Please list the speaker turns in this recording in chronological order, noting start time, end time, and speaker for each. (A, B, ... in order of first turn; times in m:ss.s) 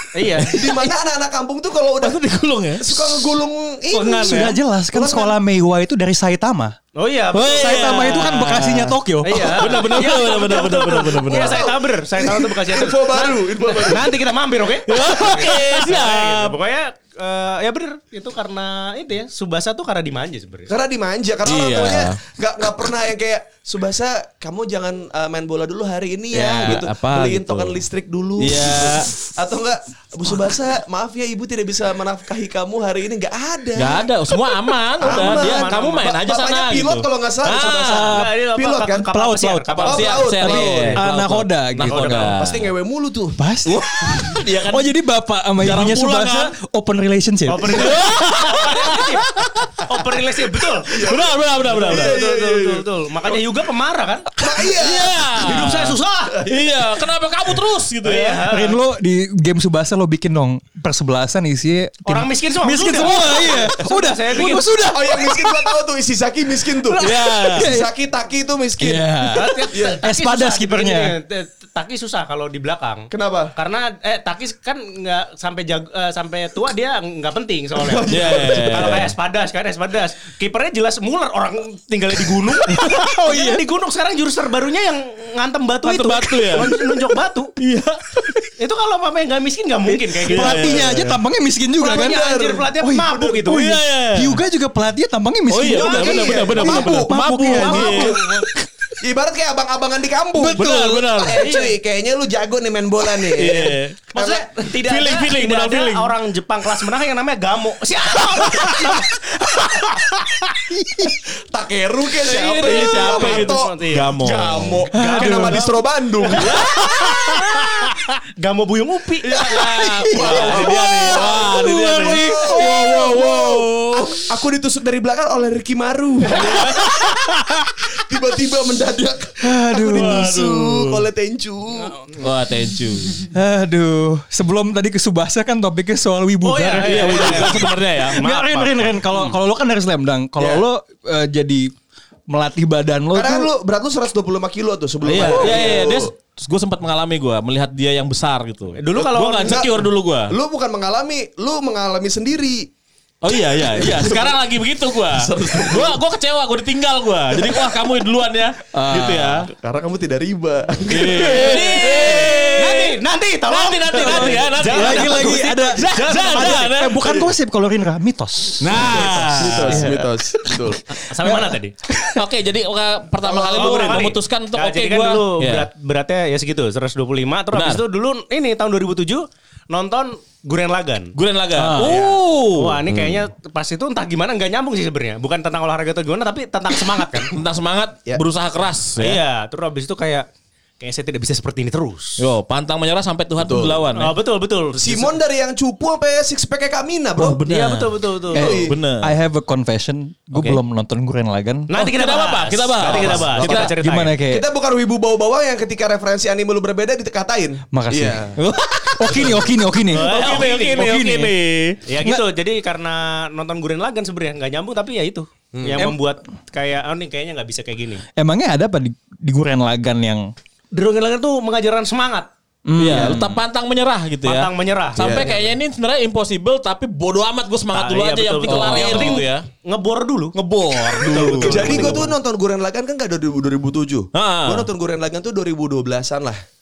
0:00.1-0:00.6 A
0:00.5-0:02.2 B
0:02.0-0:03.2 C
0:02.8-0:04.4 B
0:03.9-0:04.6 A
0:04.1-0:06.8 D
0:04.9-0:05.3 B
0:06.9-0:08.4 A
0:07.3-0:11.7 C
0:07.5-0:09.6 D
0:09.2-0:20.7 A
0:11.3-0:14.2 B
0:14.9-0:16.5 C
0:20.7-0:34.1 B
0:21.4-0:22.2 C
0:26.3-0:27.8 C
0:28.4-0:29.1 C
0:33.8-0:38.2 C
0:35.0-0:36.0 A
0:35.0-0:39.1 B
0:37.4-0:41.0 A
0:37.9-0:38.2 D
0:39.1-0:39.7 D
0:39.7-0:42.6 C
0:39.8-0:41.0 B
0:40.4-0:42.4 D
0:42.0-0:43.4 B
0:43.4-0:48.0 D
0:43.6-0:44.9 C
0:45.6-0:46.5 C
0:47.5-0:50.9 A
0:47.6-0:49.8 C
0:50.9-0:52.2 C
0:50.9-0:53.4 B
0:51.6-0:54.3 A
0:54.4-0:55.6 B
0:54.7-0:58.4 C
0:55.3-0:56.4 A
0:56.4-0:56.8 B
0:58.0-0:58.8 A
0:58.5-1:05.8 D
1:02.0-1:04.7 A
1:04.4-1:10.0 B
1:06.8-1:07.9 D
1:07.0-1:07.7 C
1:08.8-1:11.1 D
1:09.3-1:27.5 A
1:13.1-1:13.5 B
1:17.8-1:19.1 B
1:18.1-1:19.1 C
1:22.7-1:23.6 D
1:23.1-1:23.4 C
1:25.8-1:26.8 C
1:27.6-1:28.1 C
1:28.6-1:30.9 A
1:30.1-1:32.2 D
1:30.2-1:31.2 C
1:31.8-1:33.7 A
1:32.0-1:32.7 B
1:32.8-1:38.5 D
1:33.5-1:34.4 C
1:35.5-1:38.2 C
1:35.7-1:38.4 B
1:35.9-1:36.3 A
1:37.5-1:38.2 A
1:39.0-1:44.6 B
1:40.4-1:41.3 D
1:40.5-1:41.5 C
1:41.3-1:41.7 A
1:43.3-1:44.1 C
1:44.1-1:49.0 A
1:44.7-1:46.1 C
1:50.7-1:51.1 D
1:51.5-1:56.5 B
1:52.2-1:54.8 C
1:52.6-1:54.2 A
1:54.9-1:55.8 A
1:54.9-1:55.7 D
1:56.3-1:57.6 C
1:57.1-1:57.6 D
1:58.4-1:59.5 A
1:59.3-2:06.9 B
1:59.3-2:04.0 C
1:59.5-2:03.6 D
2:06.4-2:06.9 C
2:06.6-2:07.7 D
2:07.9-2:12.1 B
2:09.4-2:10.2 D
2:09.8-2:11.0 C
2:12.2-2:13.2 C
2:13.3-2:17.6 D
2:16.4-2:18.9 A
2:16.8-2:18.2 C
2:17.2-2:17.7 B
2:18.2-2:21.7 D
2:20.4-2:20.6 B
2:22.3-2:23.5 D
2:23.1-2:26.1 B
2:25.0-2:30.3 C
2:25.2-2:25.6 A
2:28.8-2:29.6 A
2:29.0-2:32.7 B
2:33.2-2:39.5 C
2:33.5-2:34.4 B
2:35.1-2:36.0 B
2:37.4-2:37.7 B
2:38.7-2:39.4 D
2:39.5-2:42.5 B
2:40.9-2:43.0 C
2:41.2-2:46.7 A
2:43.5-2:47.2 C
2:43.9-2:52.2 D
2:48.6-2:49.9 C
2:49.3-2:50.8 B
2:51.1-2:51.7 A
2:52.1-2:55.7 C
2:53.2-2:54.0 B
2:53.5-3:01.1 A
2:57.5-2:57.8 C
3:01.2-3:03.3 C
3:01.6-3:02.0 D
3:01.8-3:02.2 B
3:02.5-3:07.3 A
3:07.3-3:09.2 C
3:09.0-3:10.3 A
3:10.8-3:12.2 A
3:12.2-3:14.1 C
3:13.4-3:13.9 B
3:13.9-3:15.2 A
3:14.8-3:17.4 B
3:17.2-3:18.0 C
3:17.4-3:18.6 A
3:18.3-3:18.8 B
3:18.3-3:21.7 D
3:18.6-3:19.1 C
3:21.7-3:24.1 A
3:21.8-3:23.8 C
3:22.8-3:28.4 B
3:23.8-3:24.4 D
3:27.7-3:31.3 D
3:29.1-3:31.0 A
3:29.9-3:31.8 C
3:31.9-3:38.0 A
3:35.5-3:35.9 B
3:38.2-3:40.3 D
3:40.7-3:42.3 A
3:42.6-3:43.4 D
3:42.8-3:49.4 C
3:44.2-3:45.5 A
3:45.0-3:45.3 B
3:47.7-3:50.3 A
3:48.4-3:49.2 D
3:50.4-3:52.0 C
3:50.9-3:52.1 A
3:51.0-3:51.4 D
3:51.1-3:56.4 B
3:54.1-3:54.7 C